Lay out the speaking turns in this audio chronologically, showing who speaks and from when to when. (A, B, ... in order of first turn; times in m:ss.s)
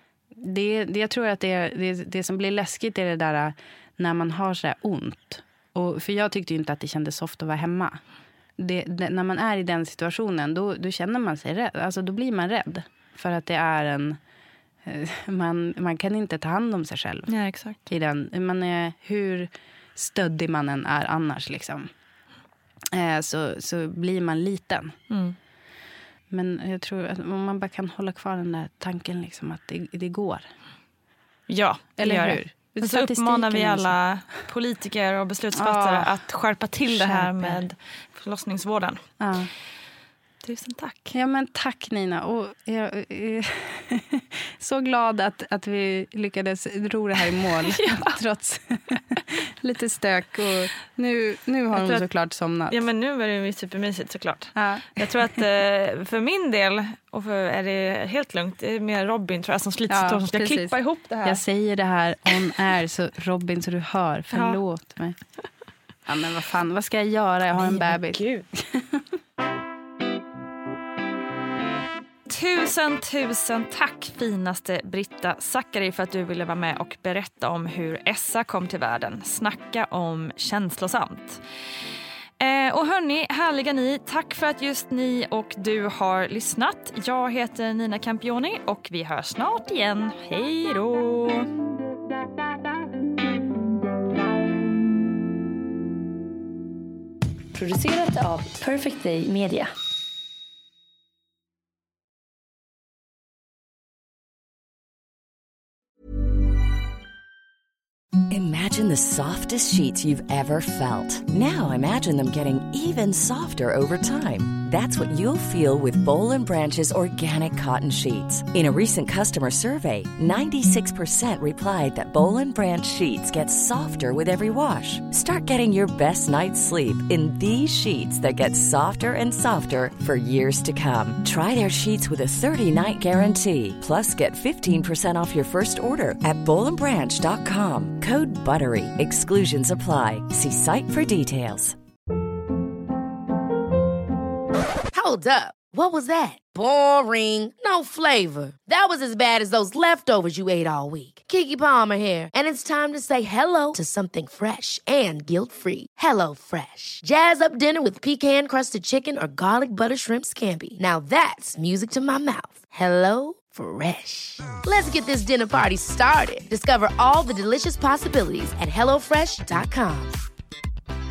0:00.4-0:08.0 A
0:08.6-0:14.2 A
0:14.8-0:17.3 A
0:17.3-0:17.8 B
0:17.8-0:21.9 A
0:22.9-0:24.9 A
0:25.1-0:25.4 B
0:26.3-0:30.5 A
0:31.5-0:39.0 B
0:32.0-0:34.0 A
0:35.5-0:36.2 A
0:36.8-0:37.6 A
0:39.2-0:39.5 A
0:40.4-0:41.1 B
0:41.1-0:52.8 A
0:47.7-0:48.1 B
0:51.7-0:52.1 B
0:52.7-1:01.4 B
0:54.5-0:55.4 A
0:59.9-1:05.2 A
1:04.3-1:04.6 B
1:06.0-1:09.0 A
1:07.5-1:08.4 B
1:12.3-1:21.4 B
1:22.4-1:31.5 B
1:37.5-1:39.7 C
1:48.3-2:21.8 D
2:24.9-2:50.1 E